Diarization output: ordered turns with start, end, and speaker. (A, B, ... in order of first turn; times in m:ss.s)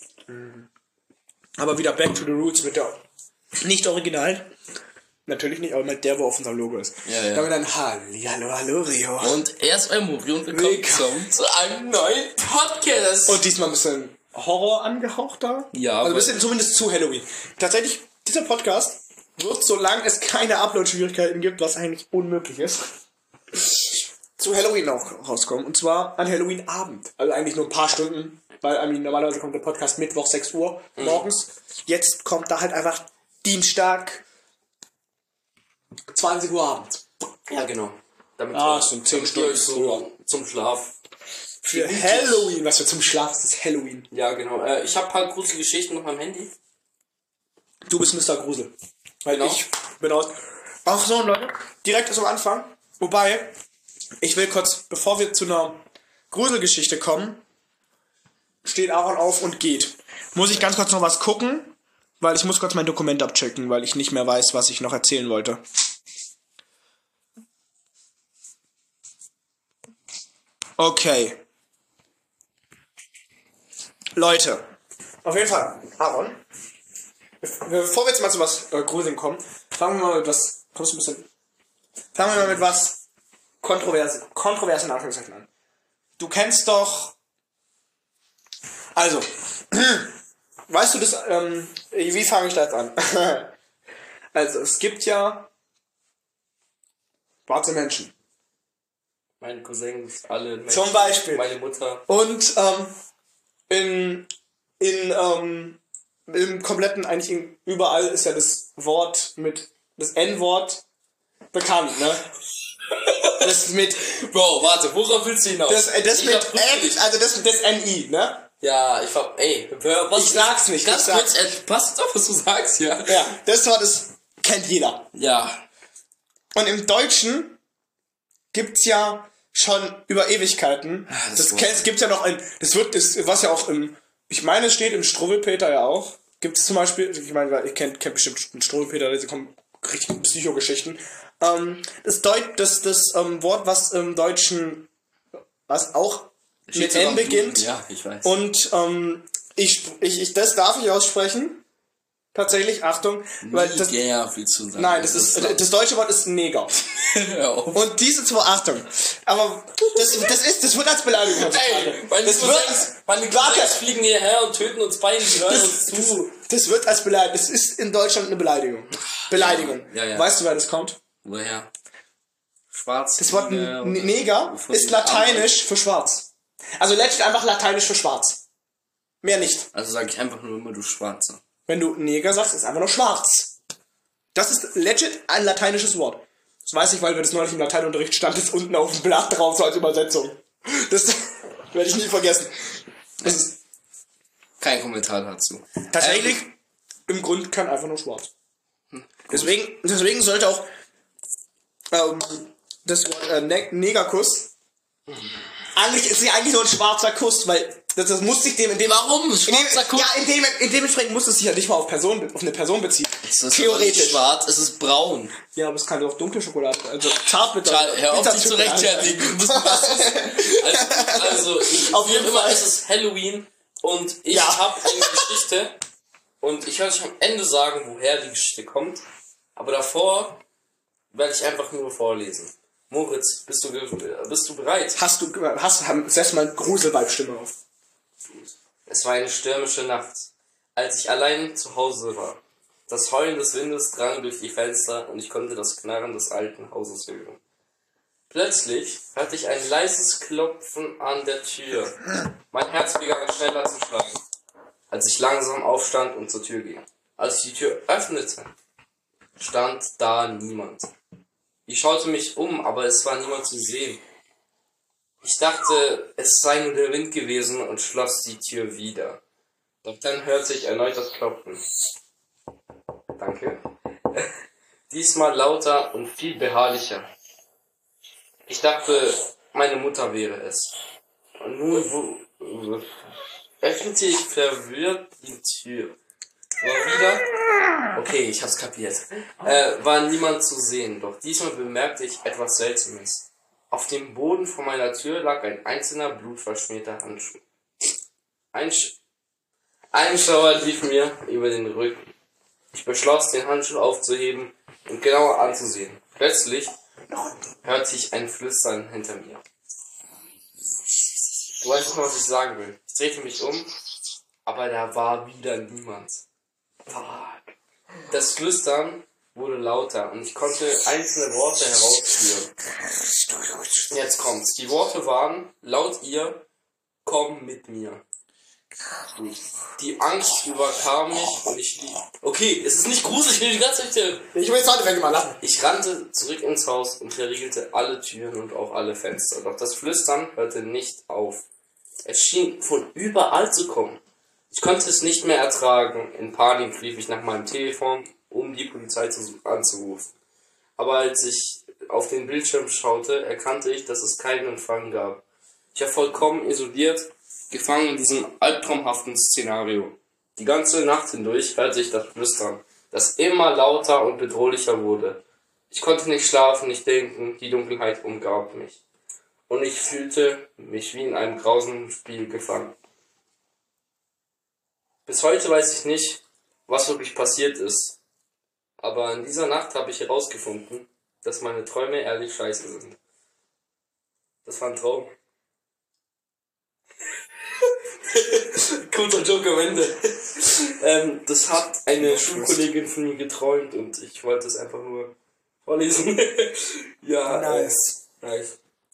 0:00.3-0:00.7 A
0:01.6-0:03.0 A
0:03.6-0:04.5 A
0:05.2-0:09.4 A
0:07.0-0:07.5 B
0:09.2-0:13.4 B
0:10.5-0:11.2 A
0:13.2-0:22.9 A
0:15.7-0:16.4 B
0:24.4-0:34.2 A
0:31.0-0:31.2 B
0:36.1-0:37.0 A
0:37.5-0:40.9 B
0:38.5-0:40.0 A
0:41.6-0:44.1 A
0:41.7-0:42.5 B
0:44.1-0:46.5 B
0:47.8-0:48.7 A
0:49.2-0:50.3 A
0:49.3-0:49.6 B
0:50.8-0:53.5 A
0:54.2-0:57.4 A
0:58.6-1:05.6 A
1:10.8-1:11.4 A
1:14.1-1:14.6 A
1:15.2-1:16.4 A
1:17.4-1:21.3 A
1:22.1-1:23.0 A
1:23.6-1:25.5 A
1:26.2-1:27.1 A
1:28.9-1:30.1 A
1:30.7-1:33.5 A
1:34.3-1:35.5 A
1:37.5-1:38.1 A
1:39.4-1:42.0 B
1:40.7-1:41.4 A
1:42.1-1:42.9 A
1:43.7-1:44.3 A
1:44.8-1:50.8 A
1:51.5-1:52.2 A
1:52.9-1:57.0 B
1:53.4-1:54.0 A
1:55.7-1:58.4 A
1:58.6-2:03.3 B
2:00.1-2:01.3 A
2:03.1-2:05.1 A
2:05.1-2:05.6 B
2:06.5-2:07.6 A
2:08.5-2:24.9 A
2:11.1-2:11.8 B
2:25.7-2:27.7 A
2:26.7-2:28.4 B
2:28.2-2:31.6 A
2:32.3-2:33.9 A
2:33.4-2:35.6 B
2:34.8-2:36.8 A
2:36.9-2:37.8 B
2:37.7-2:43.8 A
2:41.3-2:46.2 B
2:45.2-2:51.0 A
2:49.2-2:50.3 B
2:51.2-2:51.7 B
2:52.7-2:55.6 B
2:53.2-2:58.4 A
2:59.2-2:59.7 A
2:59.7-3:01.4 B
3:01.7-3:03.5 A
3:04.3-3:13.6 A
3:13.2-3:13.5 B
3:14.6-3:16.4 B
3:15.9-3:16.6 A
3:17.1-3:18.3 A
3:18.9-3:19.5 B
3:19.3-3:20.7 A
3:21.9-3:24.5 A
3:25.7-3:34.2 A
3:28.8-3:30.1 B
3:33.2-3:35.4 B
3:35.5-3:42.6 A
3:37.6-3:45.8 B
3:44.3-3:45.3 A
3:46.4-3:49.0 B
3:49.6-3:50.4 B
3:51.1-3:55.0 B
3:55.0-3:57.6 A
3:58.9-4:07.4 B
4:08.3-4:12.0 B
4:12.5-4:14.2 B
4:14.9-4:18.5 B
4:19.4-4:20.9 B
4:21.7-4:24.0 B
4:25.2-4:29.2 B
4:29.8-4:31.6 B
4:33.2-4:34.3 B
4:34.9-4:37.1 B
4:38.5-4:40.7 B
4:41.4-4:43.1 B
4:43.6-4:46.0 B
4:46.6-4:47.3 B
4:47.8-4:57.4 B
4:58.5-4:59.0 B
4:59.9-5:02.1 B
5:02.7-5:06.7 B
5:07.1-5:07.4 A
5:07.6-5:09.4 B
5:11.6-5:13.7 B
5:14.4-5:16.2 B
5:16.9-5:17.5 B
5:18.1-5:22.5 B
5:23.4-5:23.7 A
5:23.9-5:26.4 B
5:27.0-5:28.0 B
5:29.2-5:34.3 B
5:34.3-5:35.4 A
5:35.4-5:41.4 B
5:42.0-5:50.1 B
5:50.8-5:55.2 B
5:55.7-6:08.8 B
6:09.5-6:12.7 B
6:15.0-6:18.0 B
6:18.8-6:23.0 B
6:24.4-6:25.1 B
6:27.6-6:35.1 B
6:32.0-6:32.7 A
6:35.6-6:38.6 B
6:37.2-6:38.0 A